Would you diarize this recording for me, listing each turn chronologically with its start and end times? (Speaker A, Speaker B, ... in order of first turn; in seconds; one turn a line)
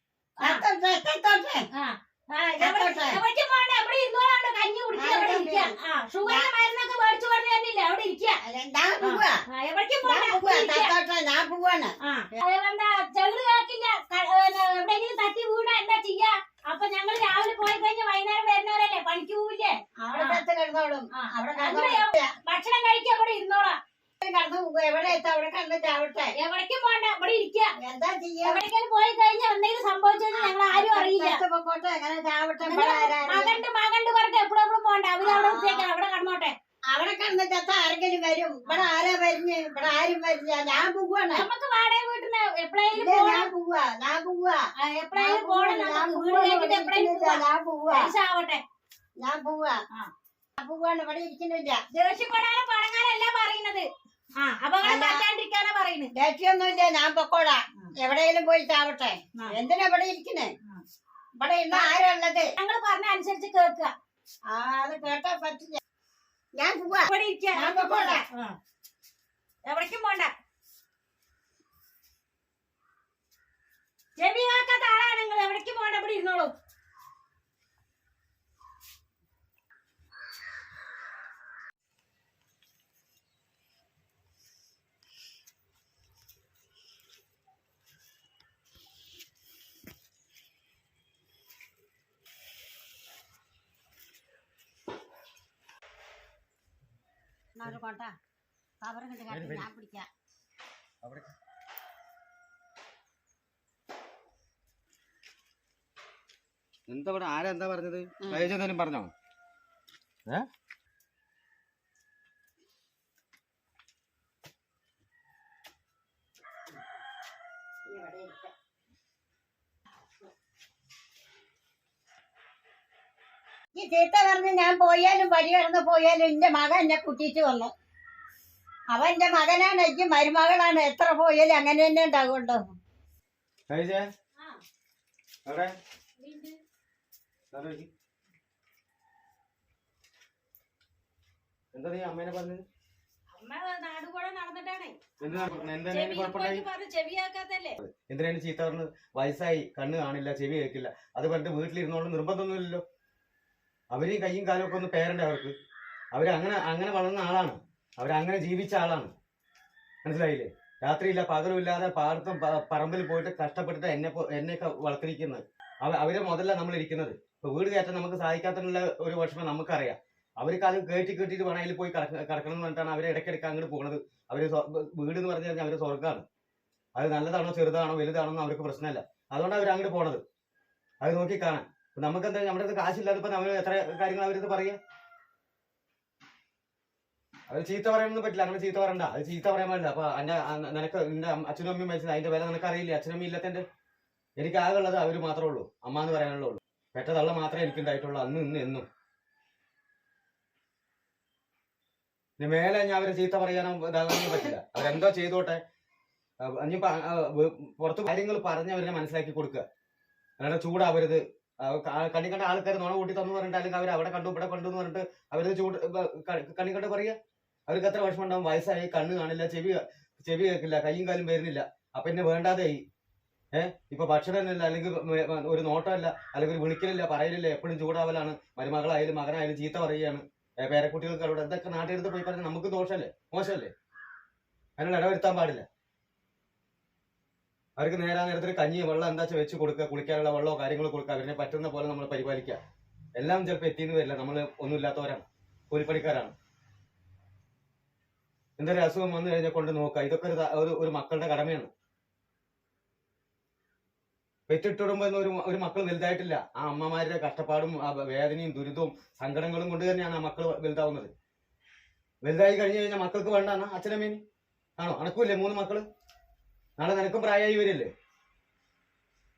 Speaker A: 0.4-1.6
Speaker B: 1.7-8.4
Speaker A: 2.6-3.2
Speaker A: 4.9-5.7
Speaker A: 6.2-6.5
Speaker A: 8.4-9.4
Speaker B: 9.0-10.9
Speaker A: 10.0-12.4
Speaker B: 12.0-20.4
Speaker A: 20.0-22.3
Speaker B: 21.1-23.8
Speaker A: 24.2-26.3
Speaker B: 26.4-27.7
Speaker A: 27.8-28.6
Speaker B: 28.4-31.4
Speaker A: 30.3-33.6
Speaker B: 32.6-36.5
Speaker A: 35.2-35.9
Speaker A: 36.9-41.5
Speaker B: 41.3-43.5
Speaker A: 42.9-44.6
Speaker B: 44.8-48.6
Speaker A: 45.1-48.1
Speaker A: 49.2-49.8
Speaker A: 50.6-51.8
Speaker B: 51.9-53.9
Speaker B: 54.4-56.1
Speaker A: 54.8-55.2
Speaker A: 56.1-60.5
Speaker A: 61.4-62.5
Speaker B: 62.6-63.9
Speaker A: 64.5-65.8
Speaker A: 66.5-68.2
Speaker B: 67.0-68.5
Speaker B: 69.6-70.3
Speaker B: 74.2-76.5
Speaker A: 97.5-98.1
Speaker A: 98.8-100.1
Speaker C: 99.3-99.7
Speaker C: 101.0-101.3
Speaker C: 106.9-109.1
Speaker A: 108.2-108.5
Speaker A: 117.9-118.5
Speaker A: 123.7-127.7
Speaker A: 128.9-132.6
Speaker C: 133.7-134.1
Speaker C: 135.4-135.7
Speaker B: 136.2-136.6
Speaker C: 137.5-137.9
Speaker C: 141.7-142.6
Speaker B: 143.3-147.8
Speaker C: 145.2-146.7
Speaker C: 147.8-152.8
Speaker C: 153.9-155.5
Speaker C: 156.1-159.1
Speaker C: 160.0-176.2
Speaker C: 176.9-180.2
Speaker C: 181.0-184.8
Speaker C: 187.5-193.6
Speaker C: 194.4-198.8
Speaker C: 202.4-205.6
Speaker C: 206.4-209.6
Speaker C: 210.4-217.2
Speaker C: 217.7-222.8
Speaker C: 223.5-233.7
Speaker C: 234.8-235.6
Speaker C: 237.8-242.6
Speaker C: 243.2-246.3
Speaker C: 248.6-251.7
Speaker C: 254.5-261.1
Speaker C: 262.2-264.2
Speaker C: 264.8-265.8
Speaker C: 266.8-267.9